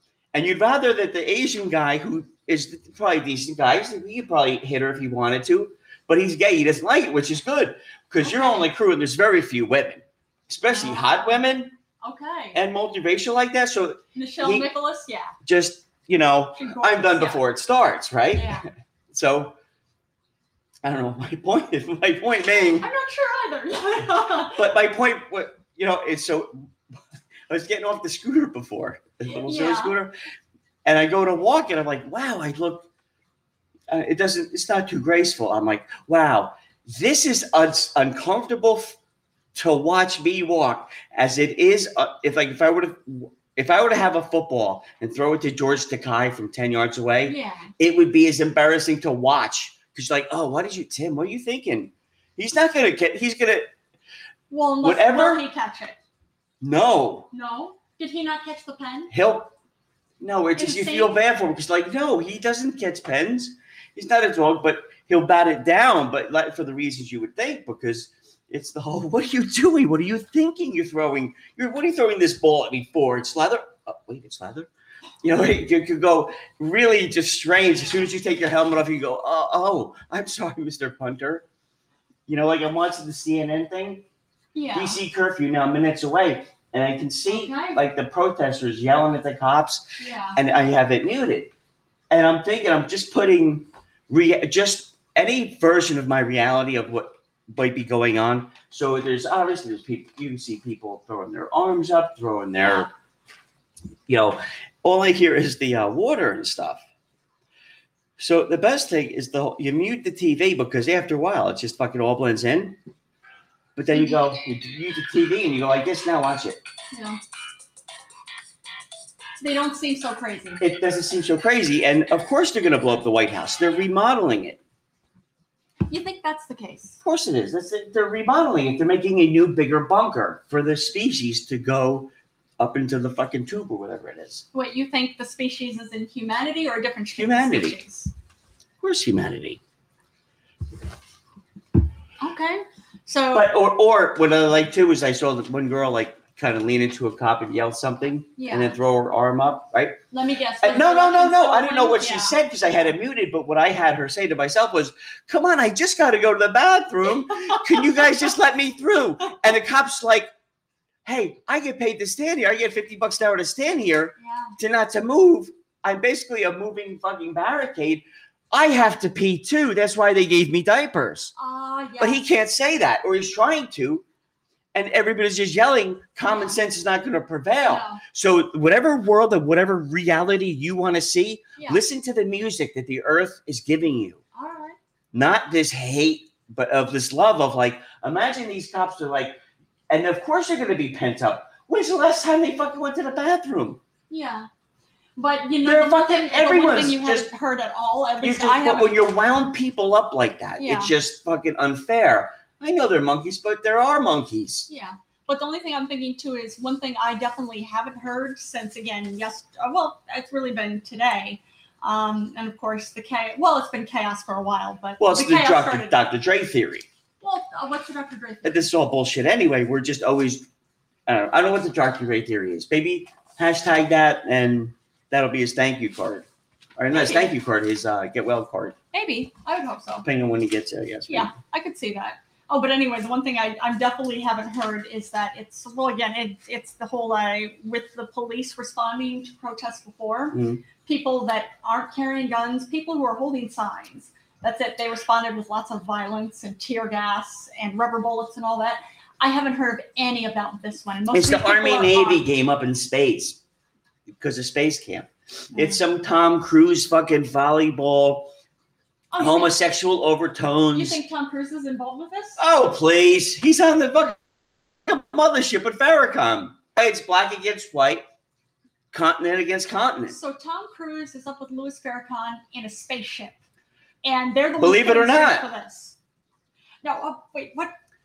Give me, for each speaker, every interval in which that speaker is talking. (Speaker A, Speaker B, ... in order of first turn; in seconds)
Speaker A: 0.3-11.8, 12.5-14.7, 15.4-18.6, 19.1-19.6, 20.8-22.9, 24.4-26.5, 27.5-30.1, 30.8-32.9, 33.9-39.0, 39.5-53.7, 54.8-55.4, 56.6-57.3, 59.1-59.5, 60.2-74.7, 75.2-81.4, 82.3-84.0, 84.7-89.8, 90.3-91.5, 92.1-102.9, 104.1-106.8, 108.2-112.8, 113.8-116.6, 120.6-124.6, 127.0-134.4, 137.2-137.8, 138.8-139.6, 143.3-150.0, 150.6-160.3, 161.0-171.3, 172.0-174.0, 174.7-184.2, 185.1-189.4, 189.9-193.8, 195.6-197.3, 198.2-204.7, 215.0-216.9, 218.4-220.5, 221.1-228.8, 230.0-231.3, 240.3-240.6, 251.1-253.4, 254.1-258.3, 259.2-261.0, 262.4-264.2, 264.9-268.0, 268.9-270.1, 274.6-275.5
Speaker B: 8.2-8.6, 10.7-11.4, 12.0-12.6, 14.1-15.3, 16.6-17.4, 18.3-18.6, 22.6-24.6, 29.3-29.9, 47.2-47.7, 54.5-56.0, 57.3-59.1, 60.5-61.1, 84.5-85.0, 87.3-87.8, 90.0-90.4, 102.6-102.9, 113.9-114.3, 116.9-117.2, 119.4-120.6, 125.9-127.0, 134.5-138.1, 142.2-143.5, 148.4-148.7, 150.1-152.4, 164.2-164.6, 171.3-172.2, 176.3-176.6, 177.6-178.0, 181.6-181.8, 184.3-184.8, 194.1-194.5, 195.2-199.0, 200.6-200.9, 204.7-216.0, 217.2-218.7, 226.9-227.3, 228.9-230.1, 231.1-252.2, 255.5-255.8, 259.1-259.6, 260.7-262.4, 270.1-273.4, 274.0-275.9, 276.8-277.7